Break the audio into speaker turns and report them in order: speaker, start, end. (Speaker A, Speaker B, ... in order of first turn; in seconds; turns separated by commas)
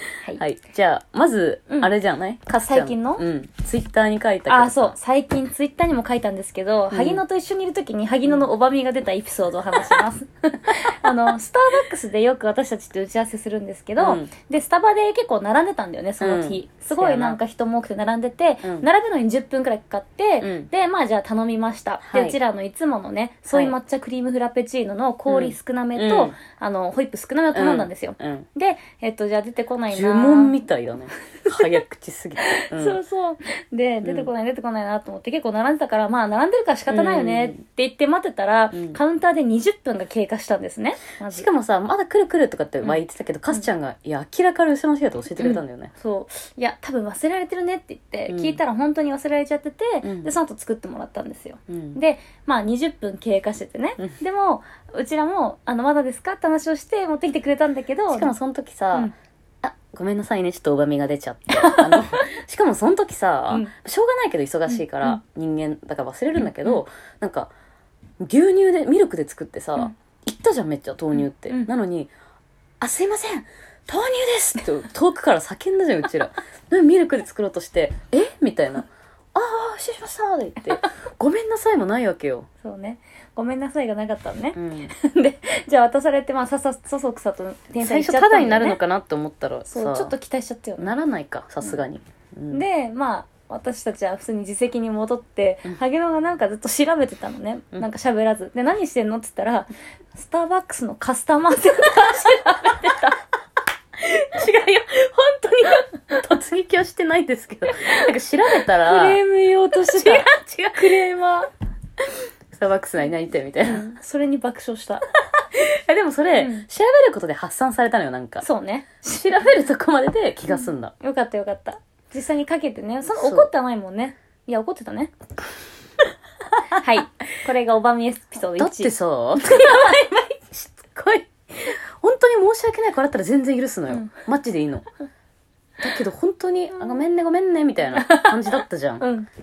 Speaker A: 0.4-4.9, Speaker B: 2.6-3.2, Speaker B: 4.5-30.6, Speaker A: 6.9-7.2, Speaker A: 14.0-14.3, Speaker A: 16.2-17.4, Speaker A: 18.6-18.9, Speaker A: 20.4-20.7, Speaker A: 22.0-22.4, Speaker A: 25.3-26.3, Speaker A: 27.5-28.4, Speaker A: 29.9-33.0, Speaker B: 32.4-41.5, Speaker A: 34.0-34.3, Speaker A: 36.9-37.6, Speaker A: 38.7-39.0, Speaker A: 41.3-45.9, Speaker B: 45.4-58.3, Speaker A: 48.3-48.6, Speaker A: 50.0-50.3, Speaker A: 51.7-52.0, Speaker A: 58.1-59.1, Speaker A: 59.6-67.5, Speaker B: 61.5-62.3, Speaker B: 64.7-65.2, Speaker B: 66.4-66.8, Speaker A: 68.2-72.1, Speaker B: 71.2-71.7, Speaker A: 72.8-82.5, Speaker B: 82.6-88.8, Speaker A: 84.5-84.9, Speaker A: 87.8-90.1, Speaker B: 89.7-90.9, Speaker A: 90.8-92.6, Speaker B: 92.5-103.2, Speaker A: 104.0-109.2, Speaker B: 108.7-111.5, Speaker A: 109.9-111.0, Speaker A: 112.5-113.9, Speaker B: 113.6-115.1, Speaker A: 115.5-118.4, Speaker B: 116.3-116.7, Speaker B: 118.4-119.0, Speaker A: 119.0-120.9, Speaker B: 120.6-125.1, Speaker A: 123.1-123.5, Speaker B: 126.7-130.3, Speaker A: 128.6-134.8, Speaker B: 133.9-134.2, Speaker A: 135.8-139.1, Speaker B: 137.9-139.3